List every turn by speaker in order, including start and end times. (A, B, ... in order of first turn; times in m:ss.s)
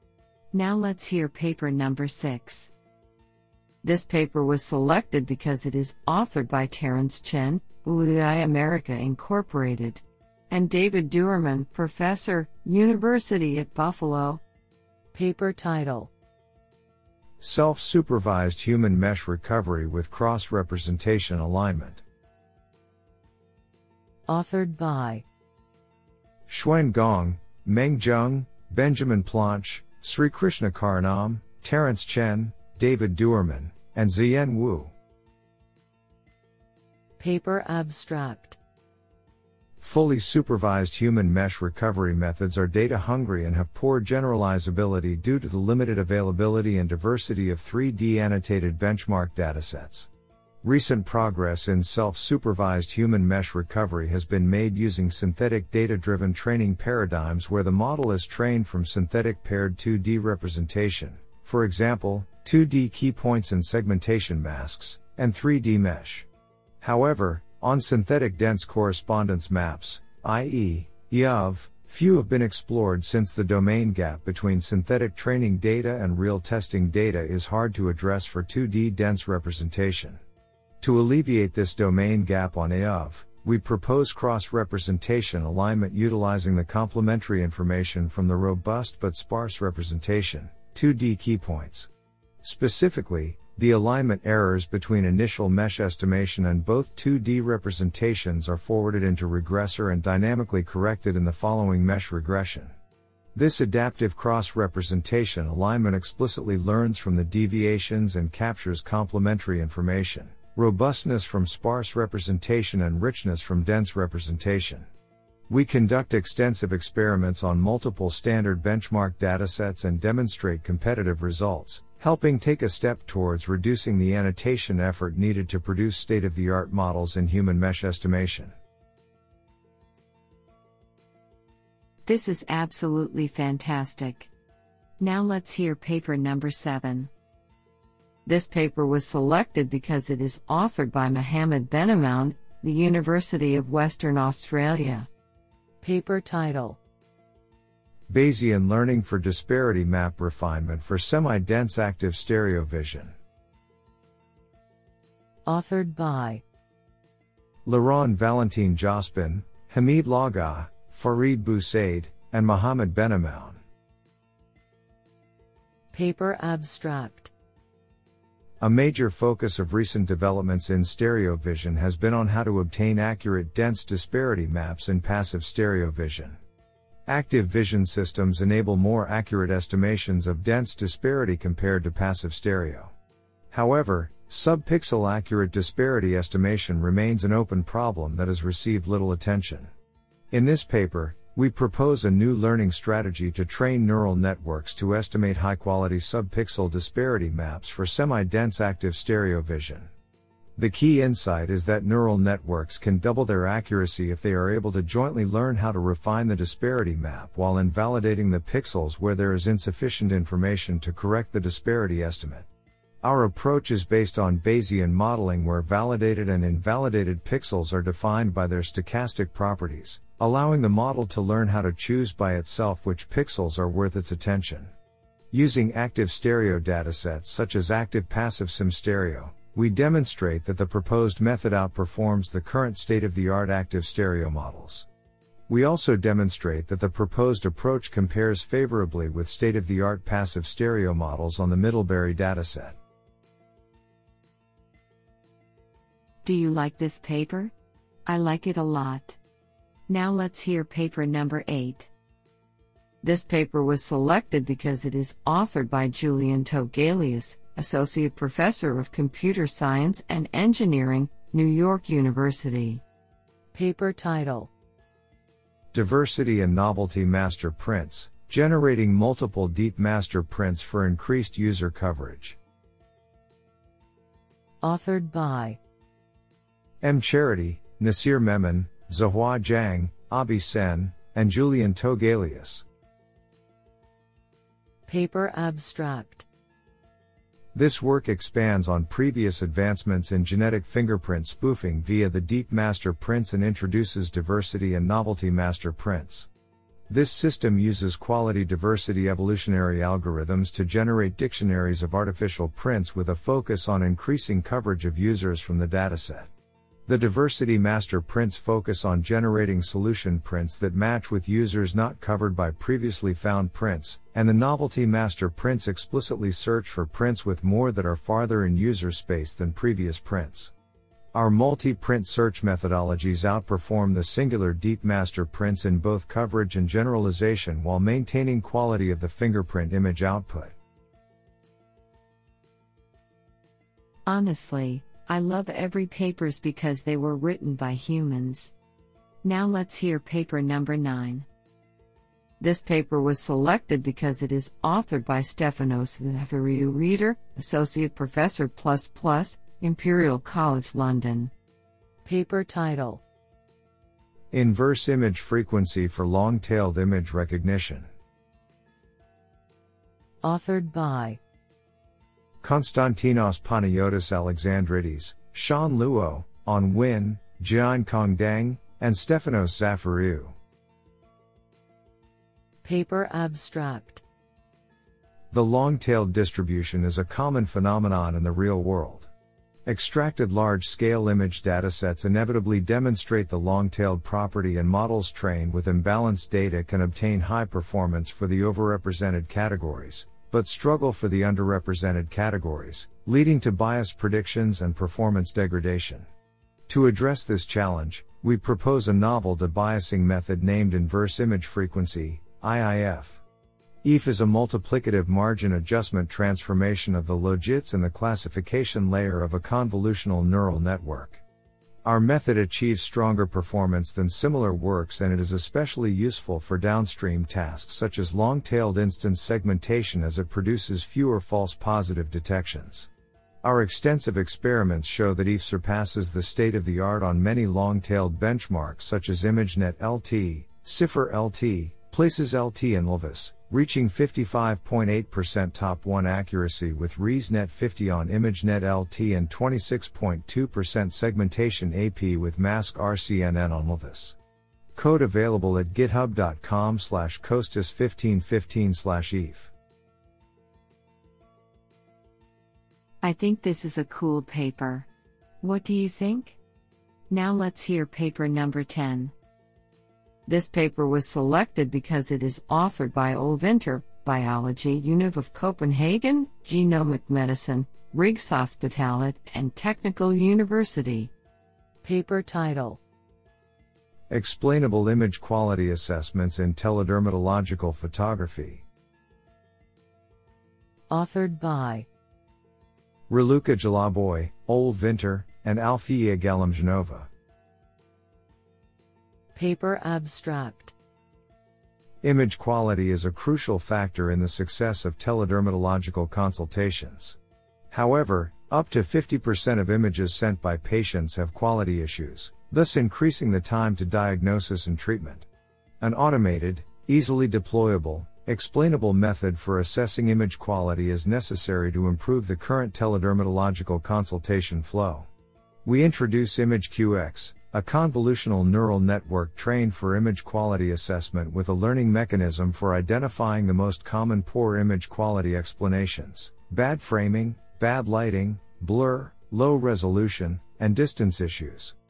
0:00.5-0:02.7 A
0:03.8-0:14.4 A
0:15.1-0:16.1 B
0:17.4-0:22.0 C
0:24.3-0:25.2 B
0:26.5-0:34.9 C
0:37.2-0:38.6 B
0:39.8-0:50.1 C
0:50.6-1:06.3 C
1:06.8-1:20.2 C
1:20.8-1:31.9 C
1:32.4-1:42.7 C
1:43.4-1:54.9 C
1:55.5-2:08.5 C
2:12.1-2:14.3 A
2:15.0-2:17.1 A
2:18.3-2:25.1 A
2:25.8-2:26.8 B
2:28.1-2:33.2 C
2:35.5-2:36.4 B
2:37.6-2:43.6 C
2:45.9-2:47.3 B
2:48.6-2:56.4 C
2:57.1-3:02.9 C
3:03.5-3:09.7 C
3:10.3-3:19.9 C
3:20.6-3:32.5 C
3:33.0-3:44.7 C
3:45.3-3:54.9 C
3:55.5-4:02.8 C
4:06.2-4:07.5 A
4:08.1-4:09.2 A
4:09.9-4:11.9 A
4:13.0-4:22.8 A
4:23.5-4:24.5 B
4:25.7-4:32.4 C
4:34.6-4:35.6 B
4:36.8-4:42.6 C
4:44.9-4:46.3 B
4:47.5-4:56.3 C
4:56.9-5:06.3 C
5:06.9-5:20.5 C
5:21.1-5:30.5 C
5:34.1-5:38.5 A
5:39.2-5:41.3 A
5:42.4-5:51.3 A
5:52.0-5:53.0 B
5:54.3-5:57.9 C
6:00.2-6:01.2 B
6:02.4-6:10.4 C
6:12.6-6:14.0 B
6:15.3-6:19.1 C
6:19.6-6:36.1 C
6:36.7-6:43.2 C
6:43.8-6:51.2 C
6:51.8-7:02.9 C
7:03.4-7:24.2 C
7:24.8-7:29.5 C
7:33.0-7:34.9 A
7:35.4-7:36.4 A
7:37.1-7:39.1 A
7:40.3-7:51.1 A
7:51.8-7:52.8 B
7:54.1-7:58.6 C
8:00.9-8:01.9 B
8:03.1-8:07.1 C
8:09.4-8:10.8 B
8:12.0-8:17.2 C
8:17.7-8:25.3 C
8:25.8-8:35.1 C
8:35.6-8:51.8 C